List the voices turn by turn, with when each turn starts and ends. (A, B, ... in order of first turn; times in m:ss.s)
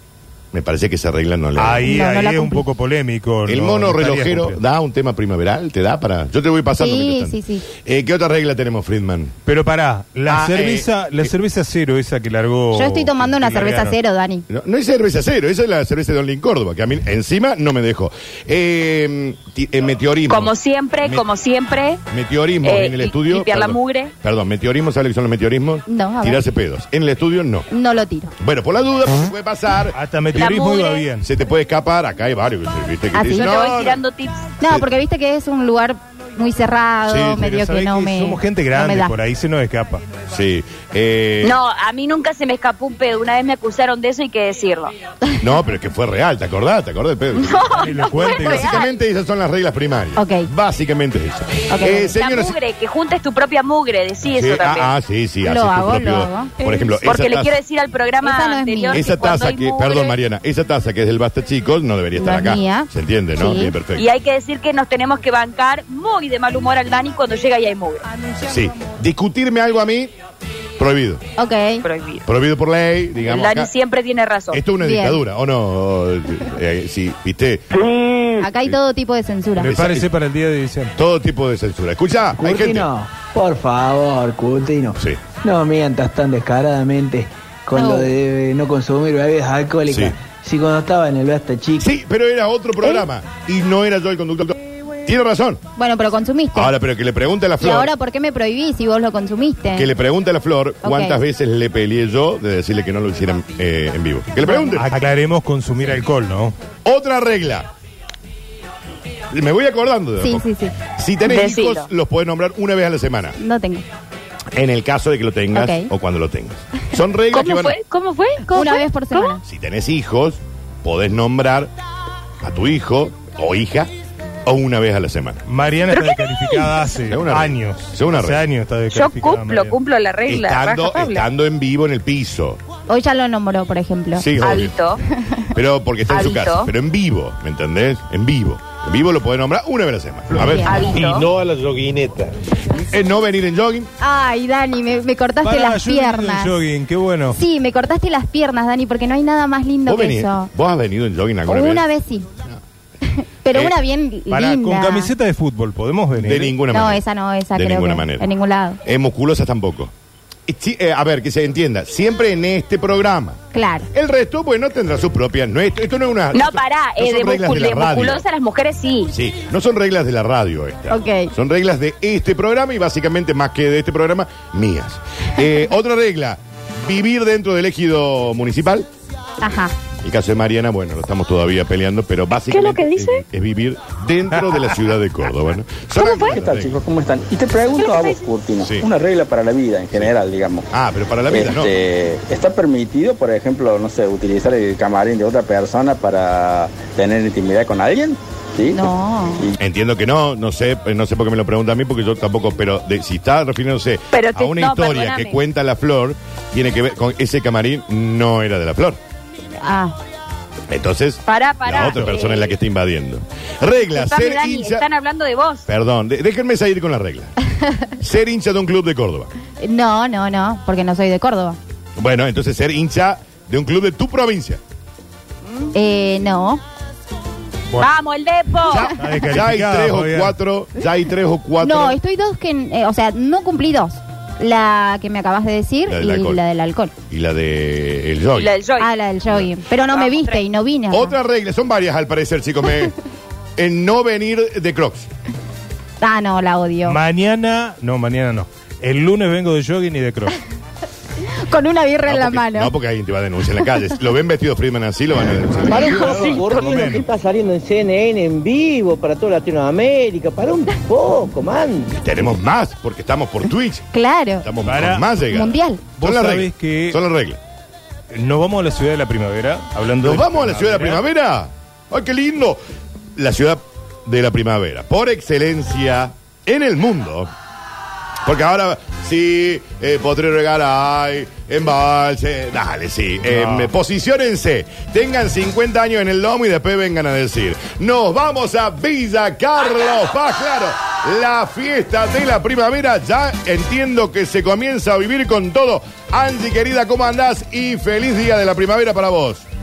0:00.5-0:01.9 A
0:01.6-0:04.6 B
0:01.8-0:02.6 C
0:03.5-0:09.3 A
0:06.8-0:07.6 C
0:09.4-0:14.0 B
0:10.3-0:11.3 A
0:12.7-0:14.4 C
0:14.5-0:21.2 A
0:20.3-0:22.0 D
0:22.1-0:27.7 A
0:22.6-0:24.1 D
0:25.9-0:26.4 C
0:27.7-0:28.3 C
0:28.4-0:30.0 A
0:29.9-0:31.2 B
0:30.3-0:31.0 D
0:31.2-0:34.0 A
0:33.1-0:33.5 C
0:33.3-0:34.4 D
0:34.6-0:39.2 C
0:37.1-0:37.4 A
0:37.2-0:40.0 B
0:40.3-0:41.6 A
0:41.4-0:44.9 D
0:45.4-0:52.6 A
0:47.4-0:48.9 D
0:47.8-0:48.7 B
0:50.2-0:50.5 C
0:51.7-0:52.1 C
0:52.1-0:54.9 D
0:54.3-0:57.5 A
0:55.4-0:56.5 C
0:57.0-1:00.1 D
0:58.2-0:59.0 C
0:58.9-1:04.1 A
1:02.2-1:03.7 C
1:04.0-1:08.0 D
1:08.4-1:10.1 A
1:10.8-1:11.2 A
1:11.4-1:11.8 C
1:11.8-1:12.2 D
1:12.2-1:13.7 A
1:13.2-1:14.6 D
1:14.5-1:17.8 A
1:14.8-1:15.2 C
1:18.4-1:19.7 C
1:19.6-1:20.1 A
1:19.6-1:20.9 B
1:21.0-1:22.9 A
1:22.4-1:31.9 E
1:25.0-1:25.2 A
1:27.7-1:28.1 C
1:29.9-1:30.1 A
1:31.8-1:35.6 A
1:35.8-1:36.7 C
1:36.5-1:37.9 A
1:37.6-1:39.9 C
1:39.7-1:44.9 A
1:40.8-1:41.2 C
1:44.4-1:44.8 C
1:44.7-1:46.5 B
1:46.8-1:47.7 A
1:49.3-1:53.4 A
1:50.2-1:50.7 C
1:51.3-1:51.9 D
1:53.4-1:53.8 C
1:54.5-1:57.8 A
1:55.5-1:55.9 C
1:57.3-1:59.3 D
1:58.5-1:59.4 C
1:59.4-2:01.7 A
2:02.4-2:03.9 A
2:04.4-2:05.4 A
2:05.5-2:09.8 B
2:06.0-2:06.6 D
2:07.1-2:08.4 A
2:08.9-2:11.2 D
2:10.3-2:12.6 A
2:12.9-2:14.2 C
2:14.2-2:14.8 A
2:14.4-2:15.0 D
2:15.5-2:21.3 A
2:16.1-2:16.7 D
2:20.3-2:20.8 C
2:20.6-2:21.3 D
2:21.9-2:22.1 A
2:22.7-2:23.9 A
2:24.0-2:26.5 C
2:25.4-2:27.4 B
2:27.3-2:30.5 C
2:29.9-2:31.8 A
2:31.5-2:32.3 C
2:33.1-2:35.1 C
2:34.3-2:36.5 B
2:36.2-2:38.3 A
2:36.7-2:38.8 C
2:38.8-2:39.9 A
2:40.5-2:43.4 A
2:43.5-2:43.9 C
2:43.9-2:48.2 A
2:46.3-2:49.1 D
2:49.1-2:58.9 A
2:50.9-2:51.3 C
2:59.4-2:59.7 C
3:00.0-3:06.8 A
3:02.5-3:03.2 D
3:06.0-3:06.3 D
3:06.2-3:10.7 F
3:07.8-3:08.2 D
3:08.6-3:08.9 A
3:10.7-3:11.7 A
3:11.3-3:19.6 F
3:18.7-3:19.4 C
3:19.6-3:29.0 A
3:24.1-3:25.4 D
3:29.6-3:30.0 C
3:30.7-3:34.8 A
3:31.3-3:32.5 D
3:33.9-3:35.6 D
3:35.7-3:37.3 A
3:38.0-3:39.3 A
3:39.6-3:41.6 C
3:42.0-3:44.6 A
3:45.7-3:46.6 C
3:47.8-3:48.9 D
3:48.7-3:52.0 A
3:49.0-3:50.4 B
3:51.6-3:56.9 C
3:55.9-3:56.4 A
3:57.1-3:58.5 A
3:58.4-3:58.9 D
3:58.8-4:01.1 C
3:59.9-4:00.4 D
4:00.9-4:02.9 A
4:03.6-4:05.1 A
4:06.0-4:07.0 C
4:06.8-4:10.3 B
4:11.4-4:12.7 C
4:12.1-4:16.0 A
4:15.6-4:22.0 E
4:15.8-4:17.0 B
4:15.8-4:17.1 D
4:22.0-4:23.9 A
4:23.9-4:24.4 C
4:24.4-4:27.4 A
4:24.6-4:25.1 B
4:25.3-4:25.8 C
4:26.0-4:27.0 B
4:28.1-4:31.0 B
4:30.0-4:32.6 A
4:33.2-4:37.3 A
4:38.2-4:59.4 A
4:43.3-4:43.7 B